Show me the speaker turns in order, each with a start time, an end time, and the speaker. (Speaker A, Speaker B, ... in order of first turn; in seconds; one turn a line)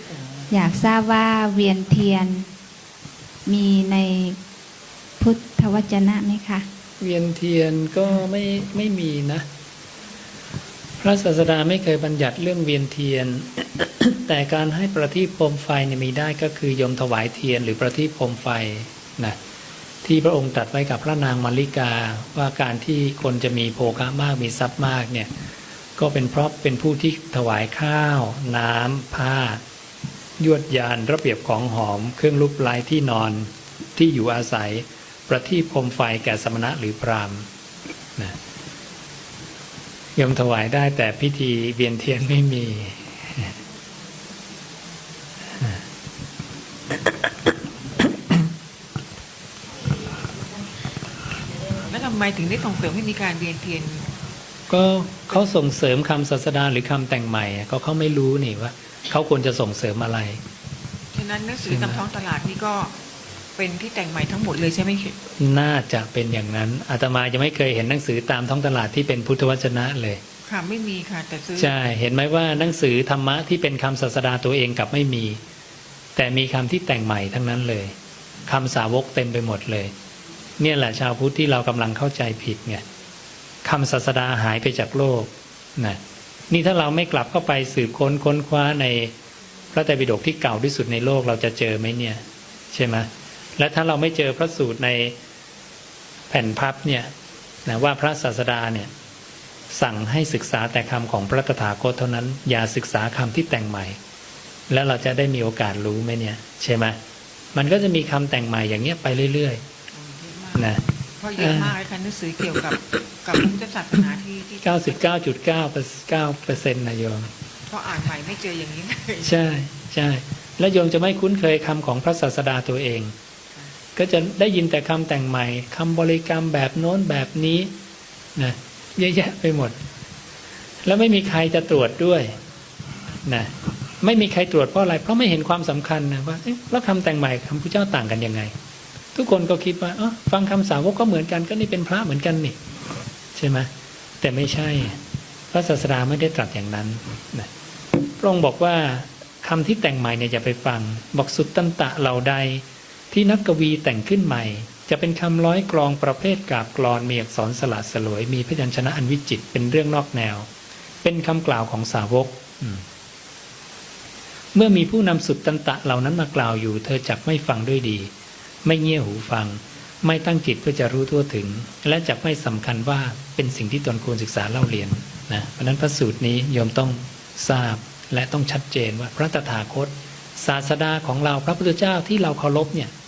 Speaker A: 0.5-2.5
Speaker A: 3.5-4.4
Speaker A: 5.2-6.7
Speaker B: 7.0-9.4
Speaker B: 11.0-19.4
Speaker B: 20.0-25.3
Speaker B: 26.0-29.6
Speaker B: 30.4-37.5
Speaker B: 40.1-43.5
Speaker C: 51.8-54.0
Speaker B: 54.7-60.4
Speaker C: 61.1-62.9
Speaker B: 61.7-62.0
Speaker C: 63.5-65.2
Speaker B: 65.4-70.2
Speaker C: 70.4-71.7
Speaker B: 71.6-75.4
Speaker B: 76.2-78.0
Speaker B: 78.5-79.9
Speaker B: 80.6-82.8
Speaker B: 83.6-86.0
Speaker B: 86.5-89.1
Speaker B: 89.7-95.2
Speaker B: 96.3-97.1
Speaker B: 97.7-98.9
Speaker B: 99.7-104.0
Speaker B: 104.7-107.0
Speaker B: 107.5-109.6
Speaker C: 109.9-115.0
Speaker B: 110.5-110.8
Speaker B: 111.4-111.7
Speaker B: 114.6-117.3
Speaker C: 117.7-119.4
Speaker B: 119.2-123.1
Speaker B: 124.0-127.7
Speaker B: 128.4-129.8
Speaker B: 130.8-132.3
Speaker B: 133.2-138.5
Speaker B: 139.2-142.6
Speaker B: 143.3-143.7
Speaker B: 144.2-145.0
Speaker B: 145.5-147.5
Speaker B: 148.2-160.5
Speaker B: 161.0-162.8
Speaker B: 164.5-168.1
Speaker B: 168.7-182.9